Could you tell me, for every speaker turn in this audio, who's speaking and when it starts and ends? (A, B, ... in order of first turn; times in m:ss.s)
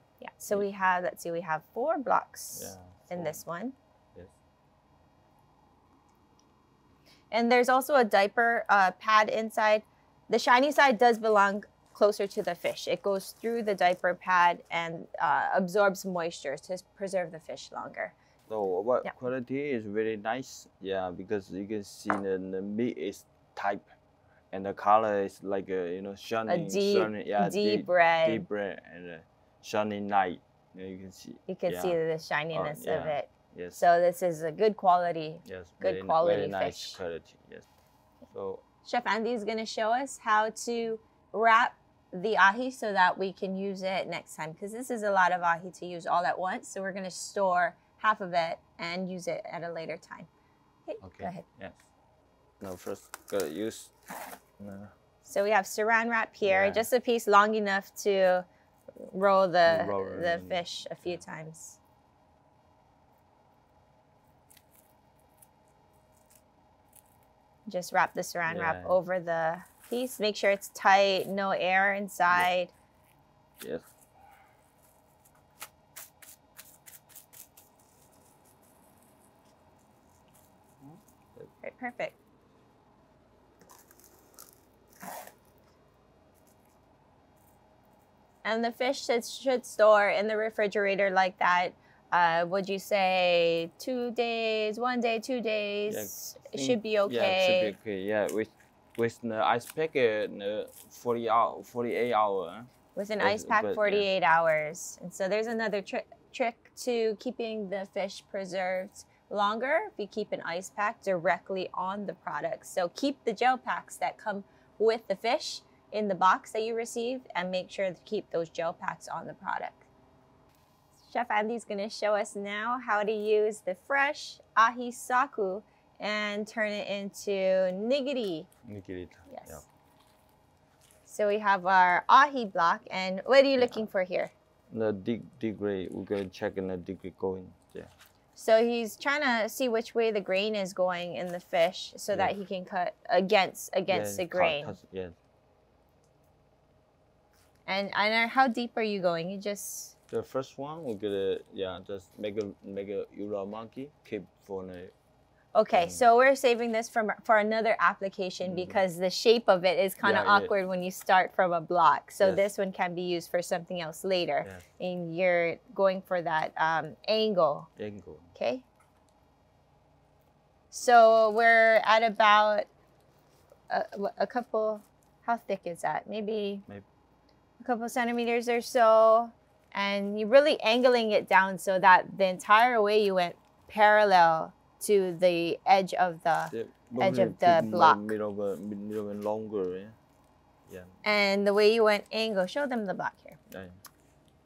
0:00.2-0:03.8 A
0:02.5-0:03.4 B
0:07.3-0:18.1 A
0:18.5-0:23.9 B
0:24.5-0:32.0 B
0:26.5-0:28.5 A
0:31.5-0:37.0 A
0:32.5-0:33.8 B
0:35.4-0:37.7 B
0:38.3-0:38.6 B
0:38.8-0:50.3 A
0:50.9-0:51.4 A
0:51.0-0:51.9 B
0:52.6-0:53.9 B
0:54.6-0:54.9 B
0:55.2-0:58.4 A
0:56.4-0:56.9 B
0:59.0-1:01.8 A
0:59.6-1:01.2 B
1:07.7-1:12.7 A
1:08.5-1:09.0 B
1:13.6-1:13.9 B
1:20.8-1:21.5 B
1:21.6-1:22.2 A
1:28.4-1:37.8 A
1:35.9-1:42.7 B
1:43.0-1:59.9 A
1:43.2-1:44.1 B
2:01.0-2:08.5 A
2:08.7-2:09.6 B
2:09.3-2:09.6 A
2:11.1-2:14.3 A
2:14.7-2:17.9 B
2:18.4-2:24.8 A
2:23.9-2:25.2 B
2:27.7-2:29.9 A
2:30.1-2:34.9 B
2:35.6-2:47.7 A
2:35.7-2:36.0 B
2:38.4-2:38.8 B
2:40.0-2:40.5 B
2:42.2-2:42.5 B
2:47.8-2:48.4 B
2:48.4-2:48.6 A
2:50.7-2:52.7 A
2:53.7-2:56.7 A
2:57.6-3:08.1 A
3:06.5-3:10.0 B
3:10.7-3:11.0 B
3:11.0-3:13.4 A
3:13.5-3:13.8 B